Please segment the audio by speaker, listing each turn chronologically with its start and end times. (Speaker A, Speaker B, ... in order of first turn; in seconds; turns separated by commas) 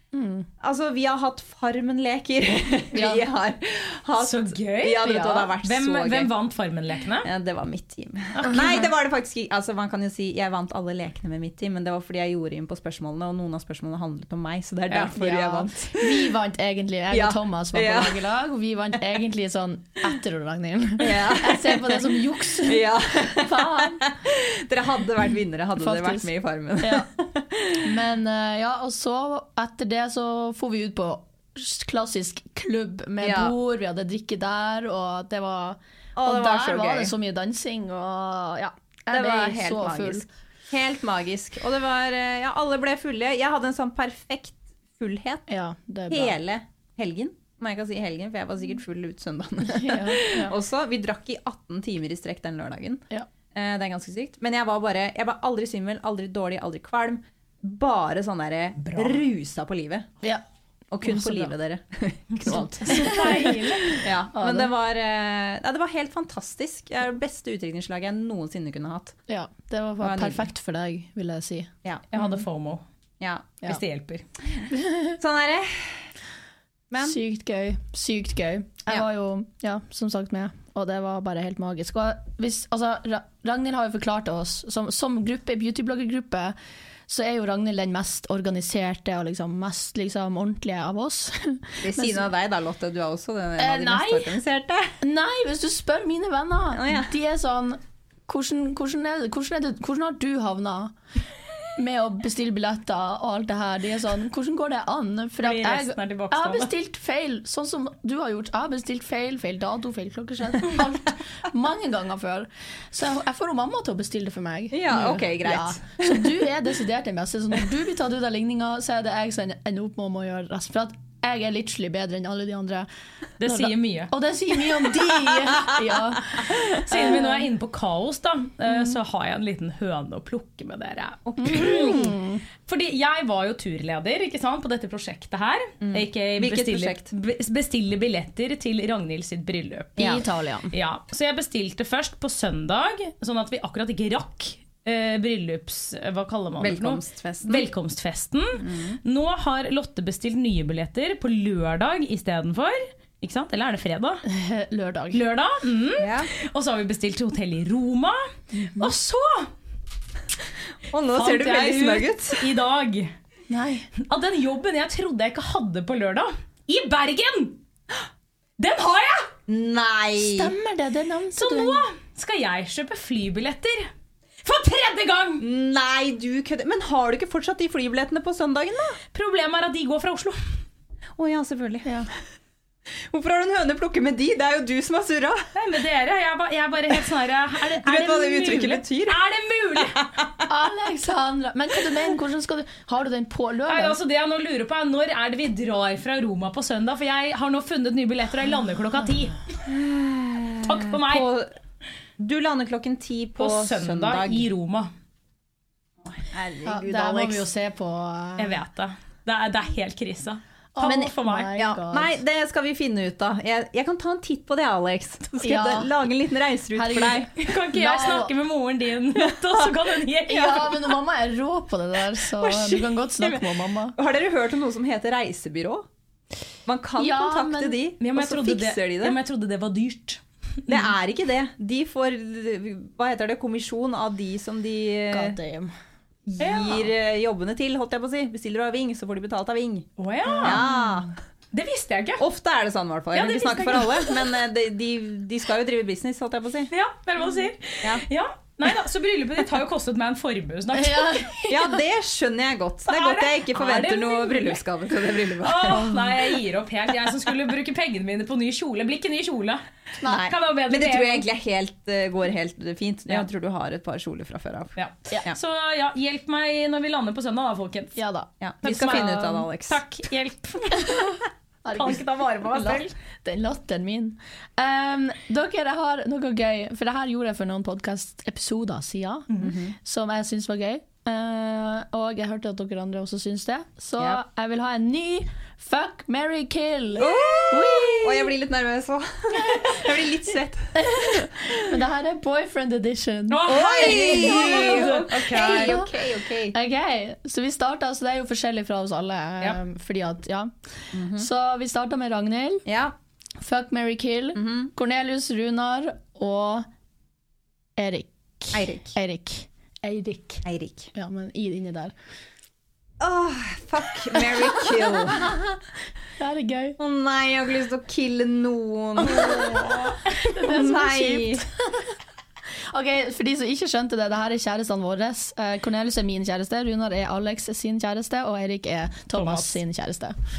Speaker A: 0.1-0.5, Speaker B: 0.6-6.3, Speaker A: 2.9-3.2, Speaker C: 4.2-7.3, Speaker A: 5.0-5.5, Speaker B: 7.2-16.2, Speaker C: 8.3-8.7, Speaker A: 8.5-8.8, Speaker A: 14.9-24.0, Speaker B: 17.1-18.2, Speaker B: 21.0-27.9, Speaker A: 25.8-26.3, Speaker A: 26.8-27.1, Speaker A: 27.8-40.3, Speaker B: 33.2-33.5, Speaker B: 36.1-37.1, Speaker B: 39.1-45.5, Speaker A: 45.5-46.4, Speaker B: 46.1-60.1, Speaker A: 49.6-50.5, Speaker B: 60.9-69.2, Speaker A: 61.0-61.5, Speaker A: 62.5-64.7, Speaker C: 62.5-64.0, Speaker A: 69.3-72.4, Speaker B: 70.0-70.5, Speaker C: 72.1-72.8, Speaker B: 73.2-73.6, Speaker C: 73.7-74.2, Speaker A: 74.7-75.2, Speaker B: 75.2-76.0, Speaker B: 76.9-77.2, Speaker A: 77.0-86.5, Speaker A: 87.1-92.3, Speaker B: 91.8-95.0, Speaker A: 93.6-94.3, Speaker A: 95.0-100.9, Speaker B: 96.7-97.1, Speaker A: 101.8-122.9, Speaker C: 105.4-106.7, Speaker B: 114.7-116.4, Speaker C: 123.4-124.1, Speaker A: 123.4-127.5, Speaker C: 126.8-132.1, Speaker B: 131.2-132.1, Speaker A: 131.4-132.4, Speaker C: 132.7-140.2, Speaker B: 135.8-137.1, Speaker B: 140.0-140.2, Speaker A: 140.0-140.7, Speaker C: 140.7-154.2, Speaker B: 146.6-147.7, Speaker B: 148.6-149.0, Speaker A: 154.2-155.2, Speaker C: 155.1-159.5, Speaker B: 156.0-156.3, Speaker A: 158.5-158.9, Speaker B: 160.9-162.4, Speaker C: 161.1-163.1, Speaker A: 163.5-163.9, Speaker C: 164.0-167.6, Speaker C: 168.6-169.3, Speaker B: 169.5-170.5, Speaker A: 170.2-171.8, Speaker C: 171.3-173.9, Speaker C: 174.4-175.4, Speaker B: 175.4-179.0, Speaker C: 179.1-180.4, Speaker B: 181.2-182.0, Speaker B: 183.1-185.5, Speaker C: 185.5-190.0, Speaker B: 187.8-189.2, Speaker B: 189.8-190.3, Speaker A: 190.5-194.0, Speaker C: 193.7-199.4, Speaker B: 199.6-201.5, Speaker C: 200.6-201.3, Speaker B: 202.2-204.5, Speaker C: 203.4-204.9, Speaker B: 206.0-207.5, Speaker A: 206.6-208.6, Speaker C: 208.4-211.5, Speaker A: 210.7-212.1, Speaker B: 210.8-217.4, Speaker A: 215.4-215.9, Speaker A: 216.7-218.3, Speaker C: 217.4-220.7, Speaker B: 219.2-219.7, Speaker A: 220.3-223.9, Speaker B: 220.3-220.7, Speaker B: 222.4-225.9, Speaker B: 226.7-229.2, Speaker A: 227.0-227.8, Speaker C: 228.0-230.9, Speaker B: 230.7-235.4, Speaker A: 235.1-235.7, Speaker B: 236.3-239.9, Speaker C: 236.4-236.9, Speaker C: 240.0-240.6, Speaker A: 240.2-241.0, Speaker B: 240.4-241.1, Speaker C: 241.5-242.2, Speaker B: 242.2-246.7, Speaker C: 243.1-244.3, Speaker C: 246.7-251.4, Speaker A: 250.8-251.6, Speaker B: 251.5-255.9, Speaker C: 252.9-254.6, Speaker C: 255.4-261.3, Speaker B: 260.1-265.4, Speaker C: 264.8-268.0, Speaker A: 267.9-268.3, Speaker B: 268.4-269.8, Speaker C: 268.6-271.1, Speaker A: 271.6-288.3, Speaker C: 271.7-272.9, Speaker B: 279.4-279.7, Speaker B: 287.0-291.3, Speaker A: 289.4-289.7, Speaker A: 290.7-295.9, Speaker C: 293.3-295.8, Speaker B: 293.4-296.5, Speaker A: 296.5-302.6, Speaker B: 300.9-301.3, Speaker B: 302.6-302.9, Speaker A: 303.4-306.7, Speaker B: 304.3-304.7, Speaker A: 307.8-311.9, Speaker B: 308.5-308.9, Speaker B: 310.4-310.9, Speaker B: 313.0-315.4, Speaker A: 316.2-316.8, Speaker B: 316.8-319.7, Speaker A: 319.0-321.9, Speaker B: 320.3-321.4, Speaker A: 322.7-330.1, Speaker C: 329.1-329.6